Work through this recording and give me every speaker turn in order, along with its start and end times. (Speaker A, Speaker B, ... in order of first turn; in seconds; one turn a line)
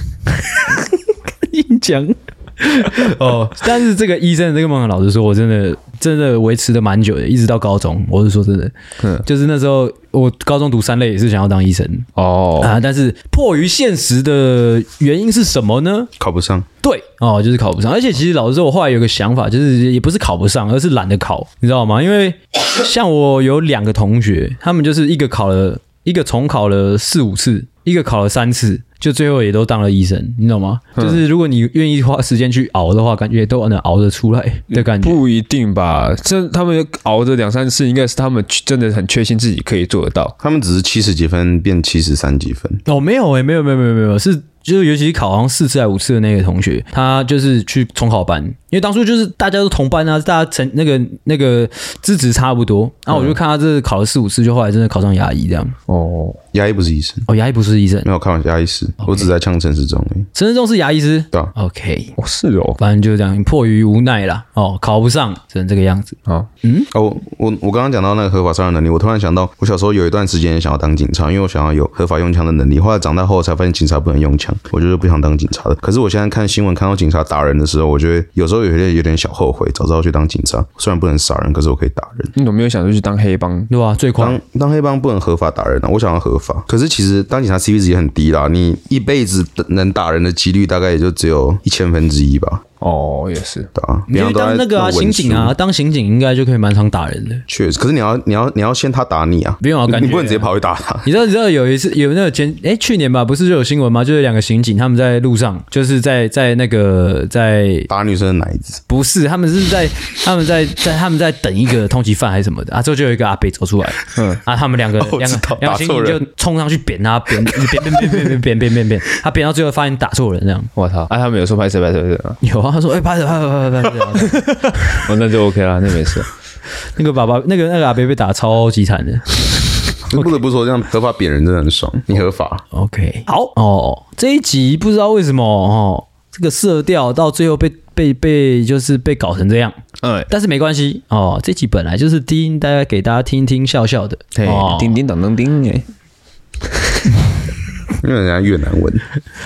Speaker A: 0.4-16.1
Speaker B: 9.0-9.2
Speaker B: 12.2-12.7
Speaker C: 16.2-16.7
Speaker A: 16.8-35.2
Speaker B: 34.7-40.3
Speaker C: 40.4-42.8
Speaker A: 42.9-55.8
Speaker B: 53.1-53.4
Speaker B: 55.9-56.4
Speaker C: 56.5-57.3
Speaker A: 57.3-58.1
Speaker C: 58.0-60.3
Speaker A: 59.0-59.3
Speaker A: 60.4-62.1
Speaker B: 62.2-62.8
Speaker A: 62.8-66.9
Speaker C: 66.9-82.3
Speaker B: 82.4-83.7
Speaker A: 83.7-84.4
Speaker C: 84.2-92.6
Speaker B: 92.8-93.7
Speaker C: 93.8-95.6
Speaker A: 94.1-97.4
Speaker C: 97.5-101.1
Speaker A: 99.6-100.5
Speaker A: 101.0-107.9
Speaker C: 107.9-108.8
Speaker A: 108.9-120.7
Speaker B: 114.2-114.4
Speaker C: 115.0-116.2
Speaker B: 120.8-122.4
Speaker A: 122.4-125.1
Speaker B: 124.9-126.3
Speaker A: 127.0-130.4
Speaker C: 130.1-132.7
Speaker A: 132.7-139.8
Speaker B: 140.0-140.3
Speaker A: 140.3-145.0
Speaker B: 144.3-145.9
Speaker B: 146.7-147.1
Speaker C: 148.0-149.1